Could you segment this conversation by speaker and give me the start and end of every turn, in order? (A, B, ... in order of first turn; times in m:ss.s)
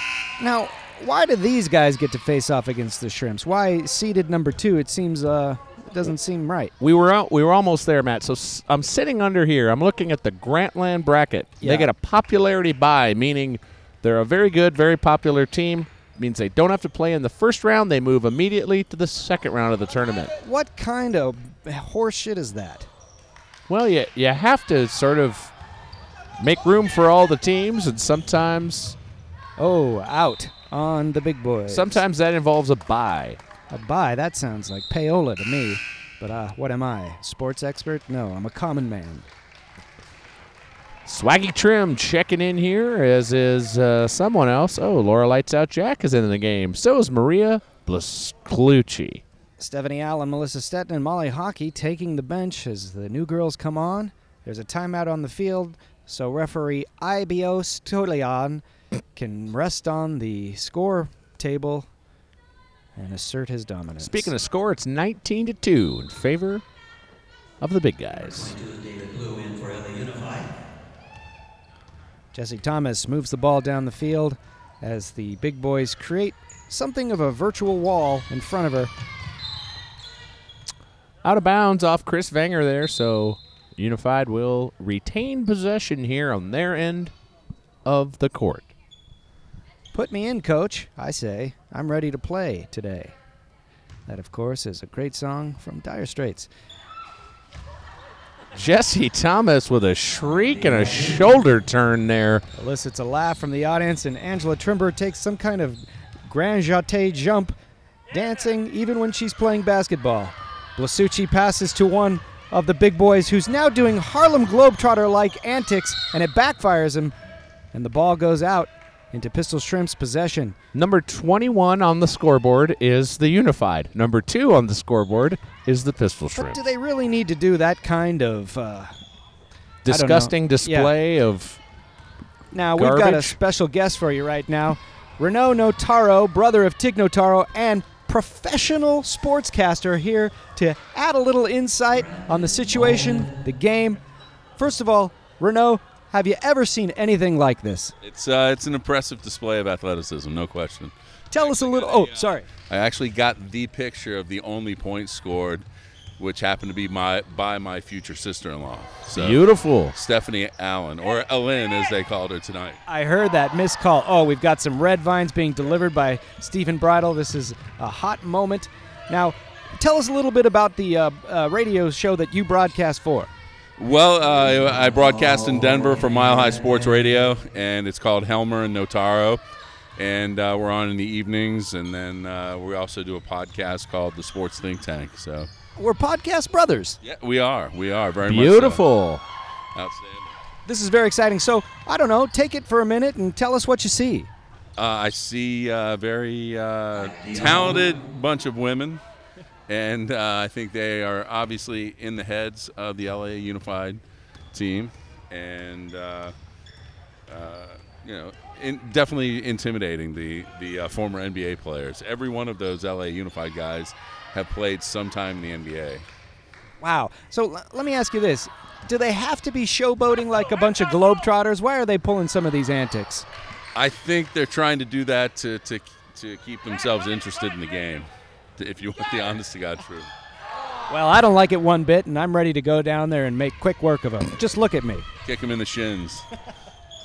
0:00.4-0:06.7 A
0:06.8-0:20.3 B
0:11.6-0:11.9 A
0:20.4-0:22.9 A
0:23.7-0:25.5 B
0:26.4-0:29.0 B
0:29.6-0:32.0 A
0:31.7-0:33.4 B
0:33.7-0:39.3 A
0:41.0-0:49.2 B
0:49.6-1:01.9 A
1:03.0-1:04.3 A
1:04.0-1:06.6 B
1:07.6-1:08.5 B
1:08.1-1:10.5 C
1:12.3-1:18.9 A
1:21.2-1:27.1 B
1:27.8-1:28.7 B
1:29.9-1:33.1 A
1:34.1-1:36.5 A
1:38.5-1:42.4 B
1:40.3-1:41.3 C
1:42.6-1:47.5 A
1:48.1-1:57.1 A
1:57.7-2:00.6 A
2:00.7-2:06.6 B
2:06.3-2:08.9 A
2:09.8-2:11.6 B
2:09.9-2:10.9 A
2:12.5-2:24.0 A
2:12.8-2:13.4 B
2:21.9-2:23.4 C
2:24.6-2:27.9 A
2:28.0-2:35.6 D
2:31.3-2:32.5 A
2:36.2-2:39.4 D
2:39.1-2:39.9 B
2:39.9-2:42.8 D
2:42.9-2:53.3 A
2:53.8-2:59.4 D
2:54.3-2:57.3 C
3:00.0-3:05.5 D
3:05.8-3:07.0 A
3:07.0-3:08.8 D
3:08.2-3:09.2 B
3:09.7-3:10.3 D
3:10.6-3:14.3 A
3:14.8-3:19.0 D
3:16.9-3:18.0 C
3:19.7-3:24.0 D
3:24.5-3:26.3 D
3:27.3-3:36.0 D
3:36.8-3:43.2 A
3:43.7-3:50.1 D
3:50.9-3:55.0 A
3:55.2-3:56.2 D